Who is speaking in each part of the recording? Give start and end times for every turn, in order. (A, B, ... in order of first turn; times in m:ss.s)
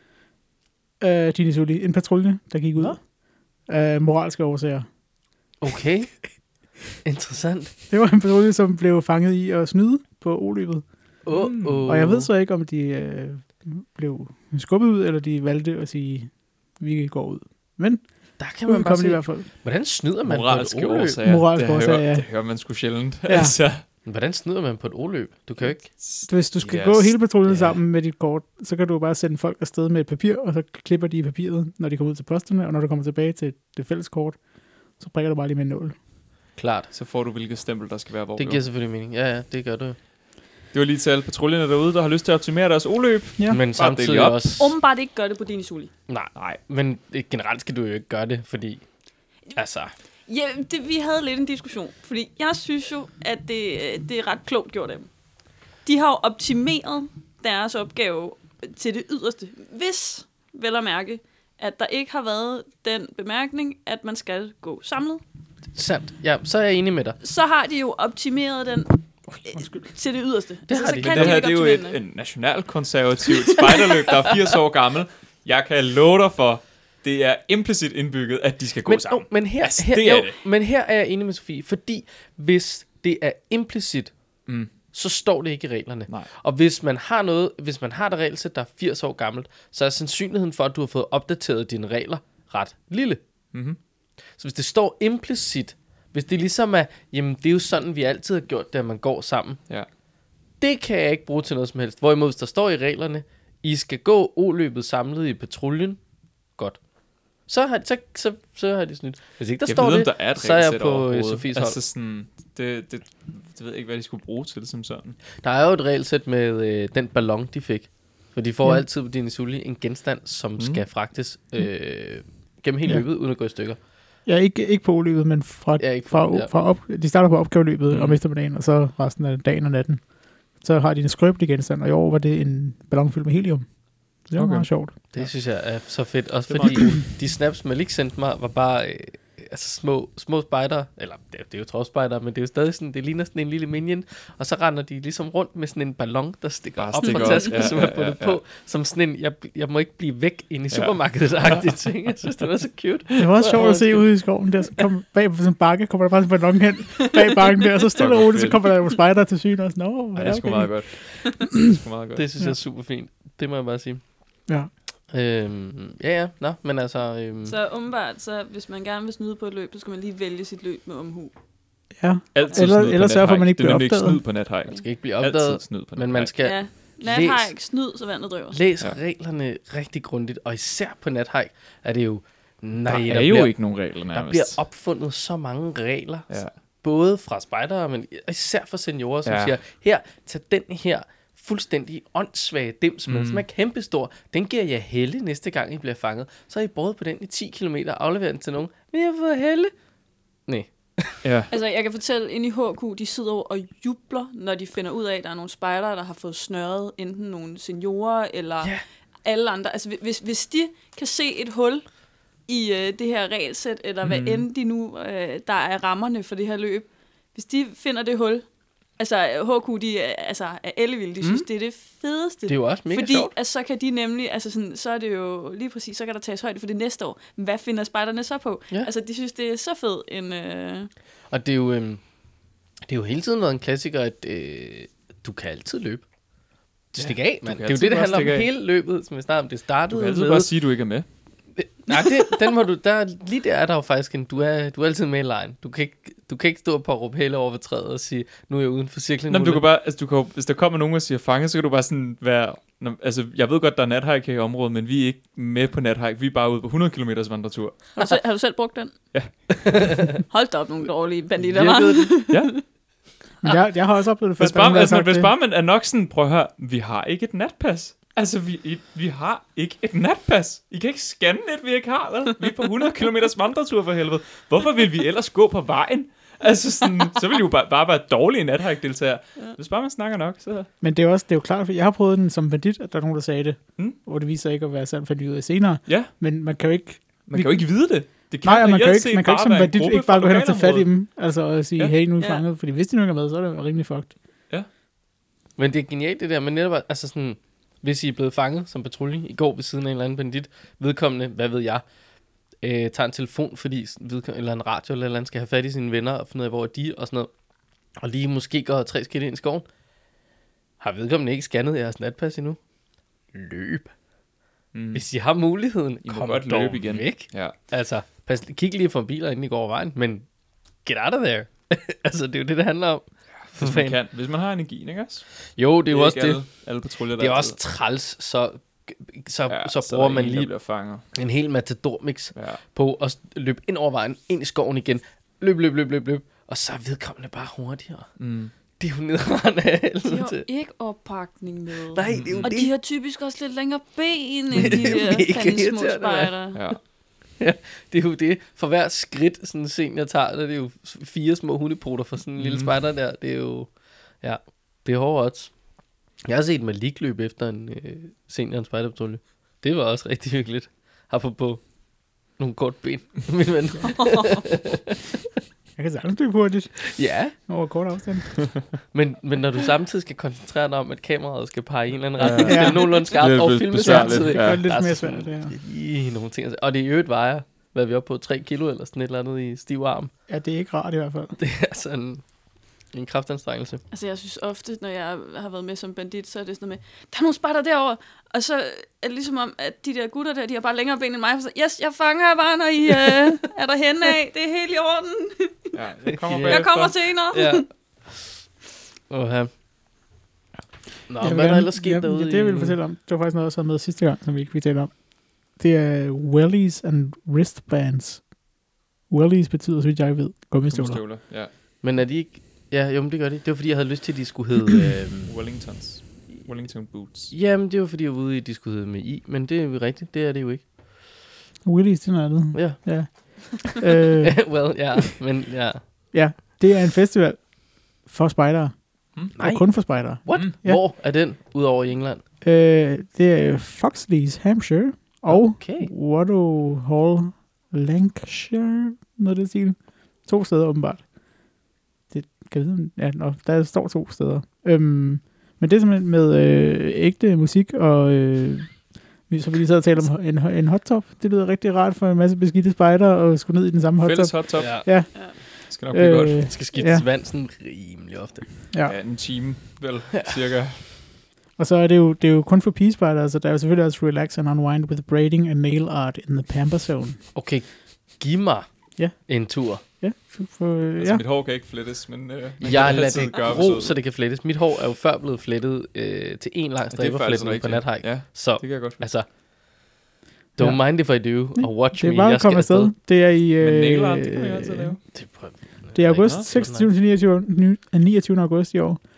0:01.0-0:04.9 A
0:05.6-0:06.4 B
0:07.0-0:07.8 B
0:07.9-0:10.9 A
0:11.2-0:12.3 B
0:11.3-0:11.9 C
0:11.8-0:19.5 A
0:18.4-0:21.2 B
0:20.2-0:23.8 C
0:21.2-0:22.6 A
0:23.3-0:23.6 A
0:24.0-0:25.9 B
0:25.6-0:27.2 C
0:26.2-0:36.0 A
0:27.4-0:27.8 B
0:36.6-0:36.9 B
0:36.9-0:38.6 C
0:38.4-0:40.0 B
0:40.7-0:44.5 C
0:43.5-0:44.7 B
0:44.6-0:45.9 D
0:46.1-0:48.8 B
0:49.5-0:49.9 B
0:50.3-0:55.1 D
0:55.8-1:05.2 D
1:05.7-1:07.2 B
1:07.2-1:12.0 D
1:09.3-1:09.8 A
1:10.7-1:11.4 B
1:11.0-1:20.4 C
1:18.8-1:24.1 B
1:24.9-1:33.2 B
1:33.5-1:33.8 C
1:34.3-1:39.6 B
1:40.6-1:46.0 B
1:47.4-1:51.8 B
1:49.6-1:55.2 C
1:55.4-2:03.8 B
2:00.6-2:00.8 C
2:04.2-2:14.9 A
2:05.8-2:06.5 B
2:07.9-2:08.2 C
2:14.3-2:15.3 C
2:15.1-2:34.1 B
2:16.5-2:17.0 C
2:26.8-2:28.4 C
2:27.0-2:27.4 D
2:30.7-2:31.9 C
2:33.2-2:33.6 C
2:33.2-2:41.5 A
2:38.0-2:38.8 C
2:40.1-2:42.2 C
2:42.2-2:44.0 B
2:45.1-2:47.6 B
2:47.4-2:51.3 D
2:52.0-2:54.2 A
2:52.3-2:56.3 C
2:54.7-2:57.5 B
2:56.4-2:58.6 D
2:58.5-3:03.6 B
3:02.8-3:04.6 C
3:04.1-3:19.7 B
3:09.2-3:09.5 C
3:13.1-3:13.4 C
3:20.4-3:21.2 B
3:21.2-3:21.5 C
3:21.5-3:38.4 D
3:34.0-3:34.4 C
3:39.0-3:50.9 D
3:41.2-3:41.4 C
3:42.5-3:43.3 B
3:51.3-3:52.0 B
3:52.9-3:56.0 B
3:56.9-4:00.5 B
3:57.0-3:58.5 C
3:59.9-4:01.1 C
4:01.6-4:09.6 B
4:09.3-4:17.9 C
4:18.0-4:18.9 D
4:19.1-4:20.0 C
4:19.6-4:20.1 B
4:20.2-4:22.6 D
4:21.4-4:22.2 B
4:22.3-4:22.6 C
4:23.4-4:25.3 A
4:24.4-4:40.7 C
4:40.8-4:54.1 A
4:45.9-4:46.1 C
4:47.3-4:50.9 C
4:52.2-4:52.4 D
4:55.6-5:01.8 B
5:02.6-5:07.3 B
5:08.0-5:09.7 B
5:10.8-5:12.6 B
5:13.3-5:13.9 B
5:14.7-5:15.0 C
5:14.9-5:20.2 B
5:16.0-5:17.5 C
5:20.8-5:24.0 B
5:23.5-5:25.2 C
5:25.6-5:26.4 B
5:25.9-5:27.6 C
5:27.2-5:30.5 B
5:29.5-5:31.1 C
5:31.1-5:38.1 B
5:32.3-5:32.6 C
5:38.2-5:38.5 C
5:38.8-5:40.4 B
5:40.0-5:46.6 D
5:41.9-5:42.7 B
5:42.1-5:42.5 C
5:44.6-5:46.8 B
5:46.5-5:46.8 C
5:47.3-5:55.5 B
5:52.4-5:52.7 C
5:56.2-6:04.7 B
6:03.8-6:04.4 D
6:05.8-6:08.7 A
6:06.8-6:07.3 B
6:08.8-6:20.1 B
6:12.2-6:14.7 C
6:12.4-6:13.1 A
6:13.8-6:15.5 A
6:20.3-6:21.4 A
6:21.4-6:22.2 B
6:22.9-6:23.8 B
6:23.9-6:35.7 D
6:35.7-6:36.9 C
6:36.2-6:38.2 B
6:36.4-6:37.6 D
6:39.1-6:39.5 B
6:41.1-6:42.8 B
6:41.2-6:48.3 A
6:49.1-6:51.0 A
6:50.7-6:51.5 C
6:51.8-6:55.3 B
6:55.2-6:57.3 C
6:57.3-7:00.6 B
7:01.6-7:04.5 A
7:02.5-7:03.4 B
7:04.2-7:06.1 B
7:06.1-7:10.8 A
7:09.3-7:12.2 B
7:12.4-7:21.1 A
7:15.3-7:15.9 B
7:22.1-7:37.1 A
7:34.0-7:36.5 C
7:34.6-7:34.9 B
7:36.4-7:38.6 B
7:38.8-7:41.0 C
7:41.6-7:47.2 A
7:47.3-7:49.8 B
7:49.0-7:51.2 A
7:51.0-7:54.0 C
7:52.6-7:59.3 B
7:56.9-7:59.0 C
8:00.6-8:02.9 B
8:00.6-8:05.0 A
8:03.6-8:05.0 C
8:05.1-8:06.9 B
8:05.9-8:09.0 A